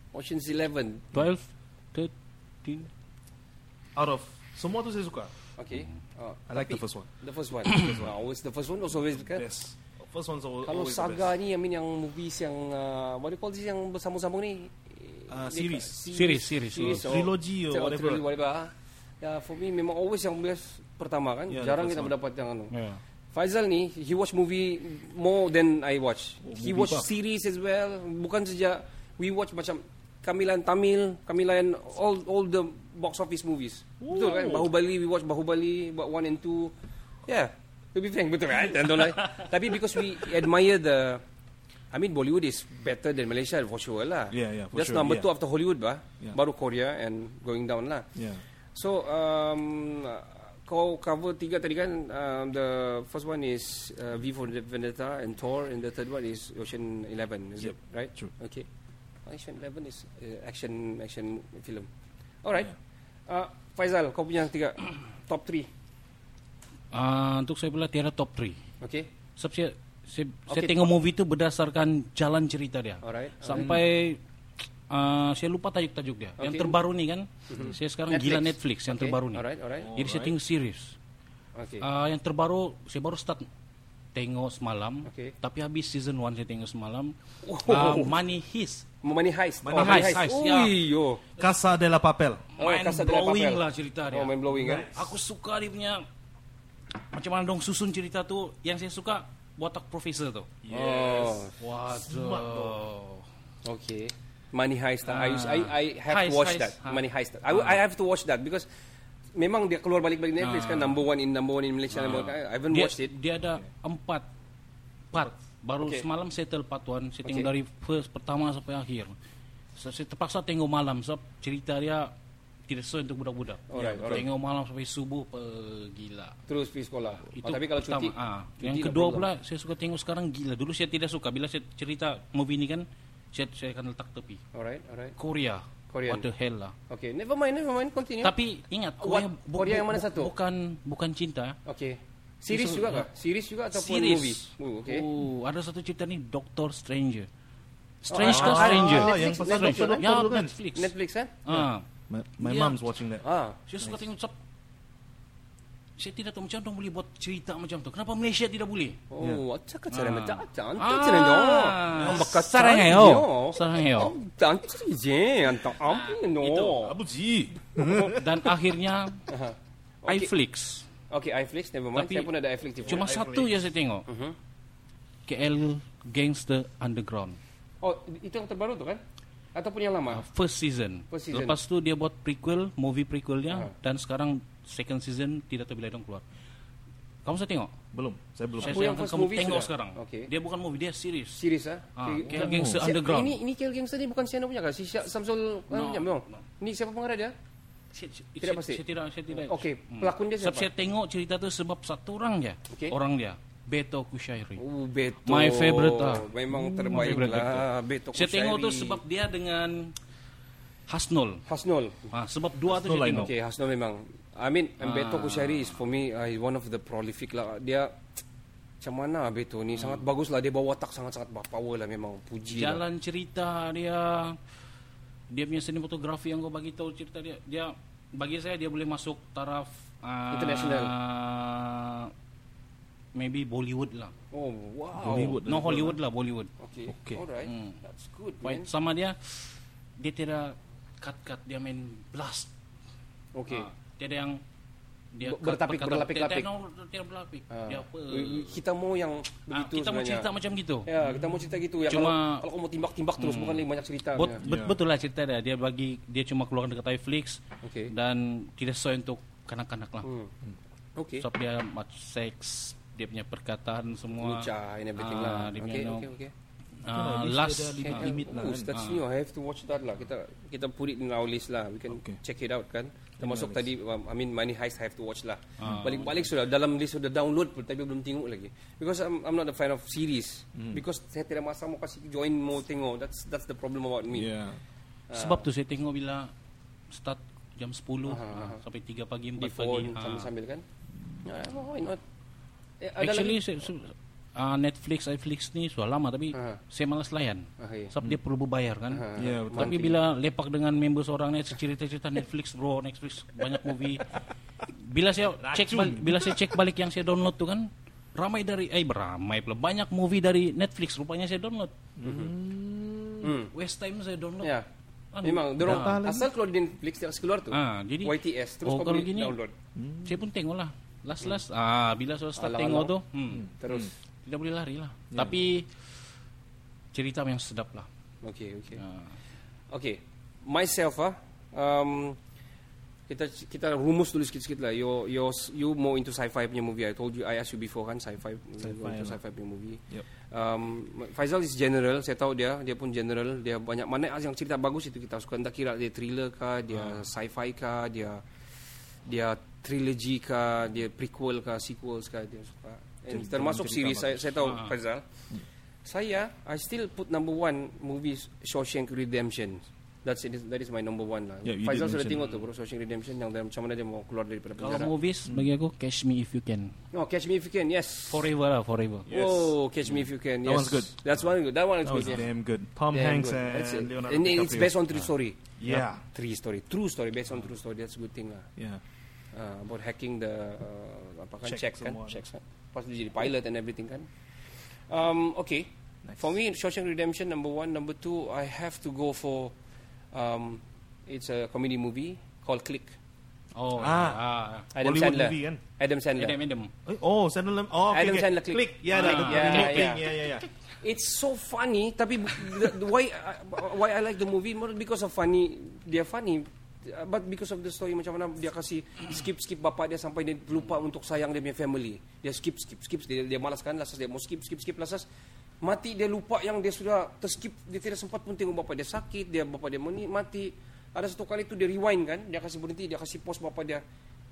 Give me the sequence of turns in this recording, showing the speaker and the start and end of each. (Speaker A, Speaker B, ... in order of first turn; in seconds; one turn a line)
Speaker A: 0.1-1.1
Speaker B: 1.1-2.1
Speaker B: 2.6-2.9
Speaker C: 4.0-5.3
Speaker A: 5.6-9.4
Speaker C: 6.5-7.1
Speaker C: 7.7-8.1
Speaker C: 9.2-11.3
Speaker A: 10.6-22.7
Speaker C: 15.3-18.3
Speaker B: 16.1-17.1
Speaker C: 21.5-22.1
Speaker B: 22.7-23.0
Speaker A: 23.3-36.7
Speaker C: 26.4-27.1
Speaker C: 34.0-34.7
Speaker A: 37.3-41.2
Speaker A: 41.9-48.1
Speaker C: 44.3-45.3
Speaker C: 48.1-48.4
Speaker A: 48.7-58.7
Speaker C: 57.6-58.3
Speaker A: 59.3-61.9
Speaker A: 62.4-62.7
Speaker A: 63.3-65.7
Speaker B: 66.9-68.6
Speaker A: 68.8-69.1
Speaker B: 69.4-74.2
Speaker A: 70.5-70.9
Speaker A: 73.0-73.8
Speaker C: 73.6-73.8
Speaker B: 74.9-81.0
Speaker A: 76.4-76.8
Speaker A: 77.5-79.9
Speaker C: 79.8-80.3
Speaker A: 81.5-81.9
Speaker B: 81.8-83.5
Speaker B: 84.1-88.9
Speaker A: 85.0-85.3
Speaker A: 87.4-88.2
Speaker A: 89.0-91.2
Speaker C: 89.6-90.2
Speaker B: 89.8-90.8
Speaker C: 91.4-92.5
Speaker B: 92.6-96.0
Speaker A: 92.6-94.9
Speaker C: 94.5-95.1
Speaker B: 96.9-100.5
Speaker C: 100.6-102.8
Speaker A: 100.7-101.6
Speaker B: 101.6-103.2
Speaker A: 103.6-108.7
Speaker B: 105.0-107.8
Speaker A: 109.3-113.1
Speaker B: 110.4-111.0
Speaker B: 111.9-114.2
Speaker B: 115.1-119.1
Speaker A: 115.8-116.1
Speaker A: 117.2-117.5
Speaker B: 119.8-122.1
Speaker B: 122.7-126.4
Speaker A: 123.7-124.2
Speaker C: 123.8-124.3
Speaker A: 126.5-129.3
Speaker B: 127.3-134.4
Speaker A: 134.5-135.2
Speaker B: 135.2-136.8
Speaker A: 135.9-136.3
Speaker A: 136.9-138.3
Speaker B: 138.2-141.6
Speaker A: 139.0-140.3
Speaker A: 141.7-145.1
Speaker B: 142.5-143.1
Speaker B: 143.7-147.3
Speaker B: 148.0-150.9
Speaker A: 148.1-150.1
Speaker C: 148.2-150.6
Speaker A: 150.7-151.3
Speaker B: 151.4-151.9
Speaker C: 151.5-153.2
Speaker B: 152.4-152.8
Speaker A: 153.2-153.6
Speaker B: 153.7-154.3
Speaker B: 156.0-159.0
Speaker A: 159.1-167.0
Speaker B: 159.9-164.1
Speaker C: 161.9-162.3
Speaker B: 165.8-166.7
Speaker C: 166.7-168.3
Speaker A: 167.8-168.2
Speaker B: 168.1-169.2
Speaker A: 169.3-170.3
Speaker B: 170.1-170.9
Speaker A: 171.1-173.1
Speaker B: 171.9-172.3
Speaker C: 172.8-173.7
Speaker B: 172.9-174.1
Speaker A: 174.1-174.4
Speaker B: 175.3-177.4
Speaker A: 177.8-179.0
Speaker A: 179.6-180.2
Speaker B: 180.1-186.2
Speaker A: 181.1-181.6
Speaker B: 187.2-187.7
Speaker C: 187.9-188.9
Speaker B: 188.6-191.4
Speaker A: 188.6-190.3
Speaker A: 191.4-197.3
Speaker B: 192.0-193.4
Speaker C: 192.3-192.9
Speaker B: 195.7-196.4
Speaker B: 197.9-204.6
Speaker A: 198.4-200.7
Speaker A: 202.7-202.9
Speaker A: 204.6-209.0
Speaker B: 205.2-209.9
Speaker C: 206.5-207.4
Speaker B: 210.9-211.4
Speaker A: 211.5-212.1
Speaker B: 212.1-213.3
Speaker C: 212.7-213.3
Speaker A: 213.1-218.0
Speaker B: 214.8-215.8
Speaker A: 218.8-222.8
Speaker B: 219.8-220.0
Speaker B: 222.5-224.4
Speaker B: 225.3-232.1
Speaker A: 230.3-230.9
Speaker B: 233.1-234.1
Speaker A: 234.3-235.4
Speaker C: 235.0-236.0
Speaker B: 235.2-236.5
Speaker A: 236.6-238.7
Speaker C: 236.9-237.2
Speaker B: 237.4-237.8
Speaker B: 238.4-242.5
Speaker A: 243.3-243.7
Speaker B: 243.5-244.4
Speaker B: 245.1-248.6
Speaker A: 245.2-246.5
Speaker A: 247.5-250.3
Speaker B: 249.5-250.9
Speaker A: 250.9-254.4
Speaker C: 251.0-251.5
Speaker B: 251.9-252.4
Speaker B: 253.2-260.1
Speaker C: 254.4-254.8
Speaker A: 257.6-257.9
Speaker A: 260.0-260.3
Speaker A: 261.0-261.3
Speaker B: 261.2-266.1
Speaker A: 264.2-266.3
Speaker B: 266.8-269.0
Speaker C: 266.9-268.7
Speaker A: 267.9-284.3
Speaker C: 271.9-272.2
Speaker C: 273.2-273.7
Speaker B: 275.6-276.1
Speaker C: 275.6-275.9
Speaker C: 280.6-280.8
Speaker C: 284.1-284.6
Speaker A: 285.1-285.5
Speaker B: 285.1-286.3
Speaker B: 286.9-290.3
Speaker A: 288.1-288.6
Speaker A: 289.4-290.6
Speaker A: 291.2-292.0
Speaker A: 292.8-293.4
Speaker B: 293.0-304.1
Speaker A: 296.3-296.6
Speaker A: 297.6-297.9
Speaker A: 298.9-300.0
Speaker C: 299.2-299.9
Speaker B: 304.8-311.7
Speaker C: 305.4-306.4
Speaker C: 312.0-313.4
Speaker A: 312.0-312.3
Speaker A: 313.2-313.5
Speaker B: 313.5-314.6
Speaker B: 315.1-316.0
Speaker A: 315.2-319.5
Speaker C: 315.6-316.3
Speaker B: 317.5-319.4
Speaker C: 319.8-320.2
Speaker B: 320.1-323.5
Speaker A: 322.4-322.9
Speaker C: 323.4-323.9
Speaker A: 323.6-323.9
Speaker B: 324.2-325.9
Speaker B: 326.9-327.9
Speaker A: 328.2-328.8
Speaker B: 328.8-329.1
Speaker A: 329.7-332.2
Speaker A: 333.1-348.2
Speaker C: 338.6-339.2
Speaker B: 346.7-347.1
Speaker A: 349.1-355.1
Speaker C: 353.1-354.4
Speaker B: 354.4-354.8
Speaker A: 355.9-364.9
Speaker C: 361.4-362.3
Speaker B: 364.6-366.8
Speaker A: 366.9-368.3
Speaker B: 368.1-369.1
Speaker C: 369.1-369.6
Speaker A: 369.1-372.3
Speaker C: 370.4-371.0
Speaker C: 371.8-374.8
Speaker A: 372.9-375.4
Speaker C: 375.6-376.0
Speaker A: 376.1-378.5
Speaker C: 378.6-378.8
Speaker A: 379.3-384.1
Speaker C: 381.4-382.2
Speaker A: 384.9-389.5
Speaker A: 390.1-393.0
Speaker B: 393.6-394.7
Speaker C: 393.8-394.2
Speaker A: 394.7-396.4
Speaker C: 394.8-395.6
Speaker B: 396.2-396.7
Speaker C: 396.9-400.5
Speaker A: 397.9-400.1
Speaker B: 398.9-400.0
Speaker A: 400.8-415.1
Speaker A: 415.6-423.8